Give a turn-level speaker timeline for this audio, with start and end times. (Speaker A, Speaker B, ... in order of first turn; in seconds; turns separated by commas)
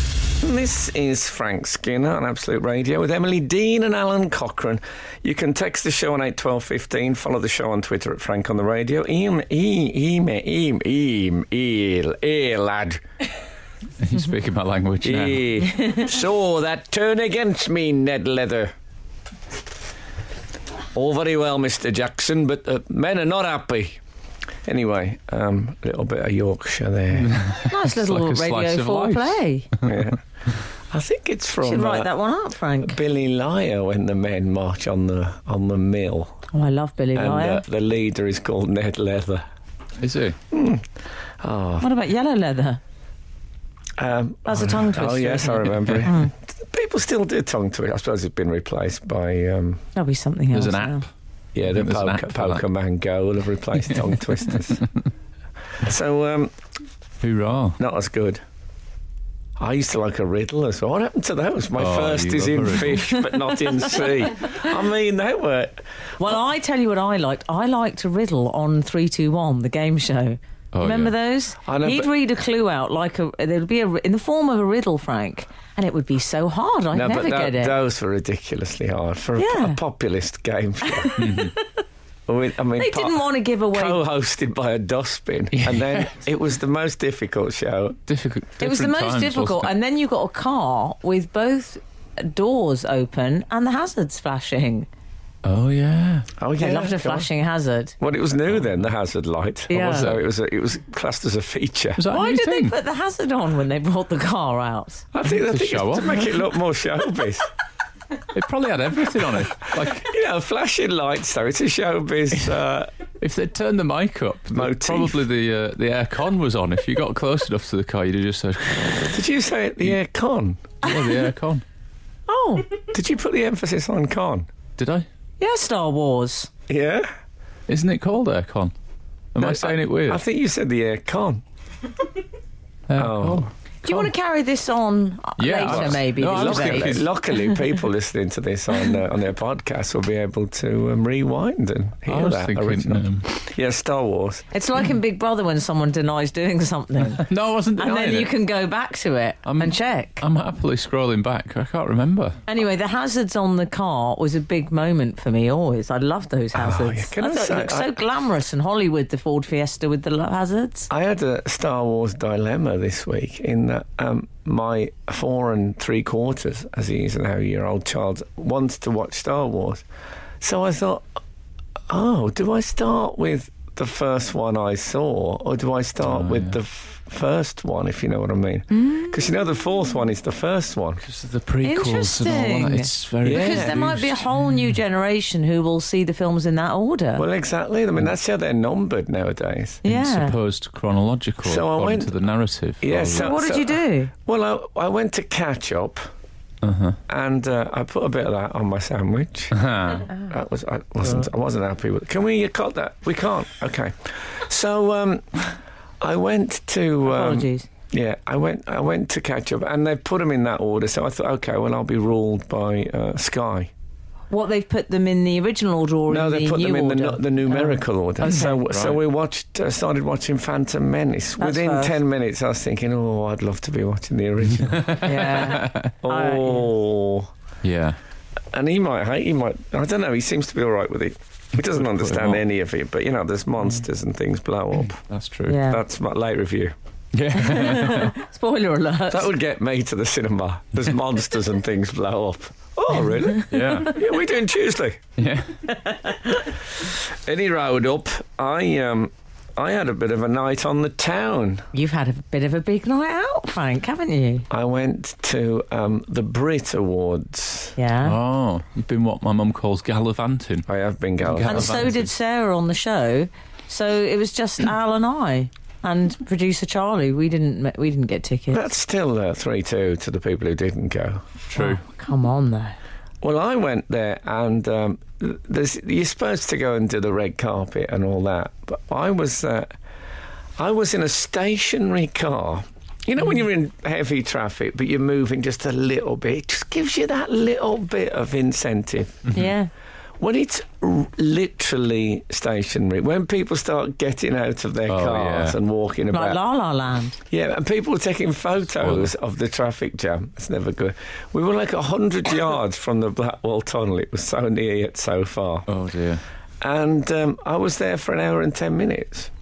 Speaker A: 0.4-13.0, Speaker B: 14.0-15.7, Speaker A: 15.0-18.7, Speaker A: 20.9-24.0, Speaker A: 24.6-27.4, Speaker B: 27.2-30.0, Speaker C: 27.7-29.7, Speaker A: 29.9-30.2, Speaker A: 30.9-32.1, Speaker C: 31.6-33.0, Speaker A: 32.8-36.4, Speaker C: 36.5-37.6, Speaker A: 37.1-39.5, Speaker B: 40.0-40.4, Speaker A: 40.5-40.9, Speaker A: 41.4-41.9, Speaker C: 41.8-42.8, Speaker A: 44.0-49.8, Speaker C: 44.5-46.3, Speaker C: 50.0-51.0, Speaker B: 50.5-51.0, Speaker A: 51.5-54.8, Speaker B: 51.7-52.6, Speaker A: 55.8-56.5, Speaker B: 57.2-57.8, Speaker A: 57.8-58.4, Speaker A: 59.6-65.8, Speaker B: 61.8-63.2, Speaker C: 63.4-63.9, Speaker C: 66.2-77.8, Speaker B: 70.7-71.2, Speaker A: 71.7-72.1, Speaker A: 76.9-81.2, Speaker C: 79.4-79.8, Speaker C: 80.9-81.6, Speaker B: 81.2-81.5, Speaker A: 82.3-88.0, Speaker C: 82.8-84.0, Speaker B: 85.5-86.1, Speaker B: 88.1-89.7, Speaker C: 88.6-94.9, Speaker B: 95.4-96.3, Speaker A: 96.4-97.3, Speaker C: 96.6-98.0, Speaker A: 98.0-102.0, Speaker C: 99.7-100.1, Speaker B: 99.7-100.2, Speaker B: 102.0-102.8, Speaker C: 102.1-105.0, Speaker A: 105.1-107.5, Speaker B: 105.3-106.3, Speaker B: 108.3-110.1, Speaker A: 110.0-112.9, Speaker B: 113.2-119.2, Speaker A: 114.5-115.2, Speaker A: 119.0-120.6, Speaker B: 120.8-121.6, Speaker C: 120.8-121.1, Speaker C: 122.3-122.7, Speaker A: 122.9-124.5, Speaker B: 124.8-125.1, Speaker C: 125.4-126.5, Speaker A: 126.7-127.1, Speaker B: 127.7-128.7, Speaker B: 129.3-130.2, Speaker A: 129.4-131.4, Speaker B: 132.9-134.1, Speaker A: 133.0-133.5, Speaker C: 133.8-137.4, Speaker B: 135.4-137.1, Speaker A: 135.7-144.5, Speaker B: 142.1-143.3, Speaker C: 144.5-147.3, Speaker B: 147.2-148.3, Speaker C: 147.8-150.2, Speaker B: 149.5-152.4, Speaker C: 152.5-160.9, Speaker A: 156.5-158.0, Speaker A: 160.9-169.8, Speaker A: 170.4-171.1, Speaker A: 171.9-181.0, Speaker B: 176.0-176.6, Speaker C: 178.8-179.1, Speaker B: 181.0-184.6, Speaker C: 181.6-187.2, Speaker A: 183.2-183.8, Speaker A: 187.2-189.8, Speaker C: 189.8-190.3, Speaker B: 189.8-193.4, Speaker A: 191.4-192.1, Speaker A: 192.8-196.1, Speaker C: 193.2-194.1, Speaker B: 196.6-197.0, Speaker A: 197.1-199.6, Speaker B: 199.5-200.1, Speaker A: 200.2-213.7, Speaker C: 207.1-207.7, Speaker C: 214.3-218.6, Speaker A: 216.1-227.3, Speaker B: 218.2-219.0, Speaker C: 221.4-222.0, Speaker B: 224.6-225.9, Speaker C: 225.0-226.7, Speaker B: 227.6-228.0, Speaker A: 228.5-235.0, Speaker B: 231.6-232.4, Speaker B: 234.9-235.6, Speaker C: 235.5-235.8, Speaker A: 235.5-236.7, Speaker B: 237.1-238.2, Speaker C: 237.4-239.3, Speaker A: 239.1-245.0, Speaker C: 243.3-243.8, Speaker B: 243.5-243.9, Speaker B: 245.2-245.7, Speaker C: 245.8-246.3, Speaker A: 246.9-251.7, Speaker C: 251.7-254.5, Speaker A: 254.5-257.8, Speaker C: 257.8-258.2, Speaker B: 258.0-260.7, Speaker A: 260.7-261.9, Speaker B: 261.2-262.1, Speaker C: 261.5-268.6, Speaker A: 268.5-271.4, Speaker B: 271.5-271.8, Speaker C: 271.6-272.8, Speaker A: 273.2-279.7, Speaker A: 280.6-289.3, Speaker C: 289.3-289.7, Speaker A: 290.2-296.4, Speaker B: 294.9-295.6, Speaker C: 296.1-297.2, Speaker A: 297.3-305.7, Speaker B: 298.8-299.1, Speaker B: 305.7-306.2, Speaker A: 306.6-309.3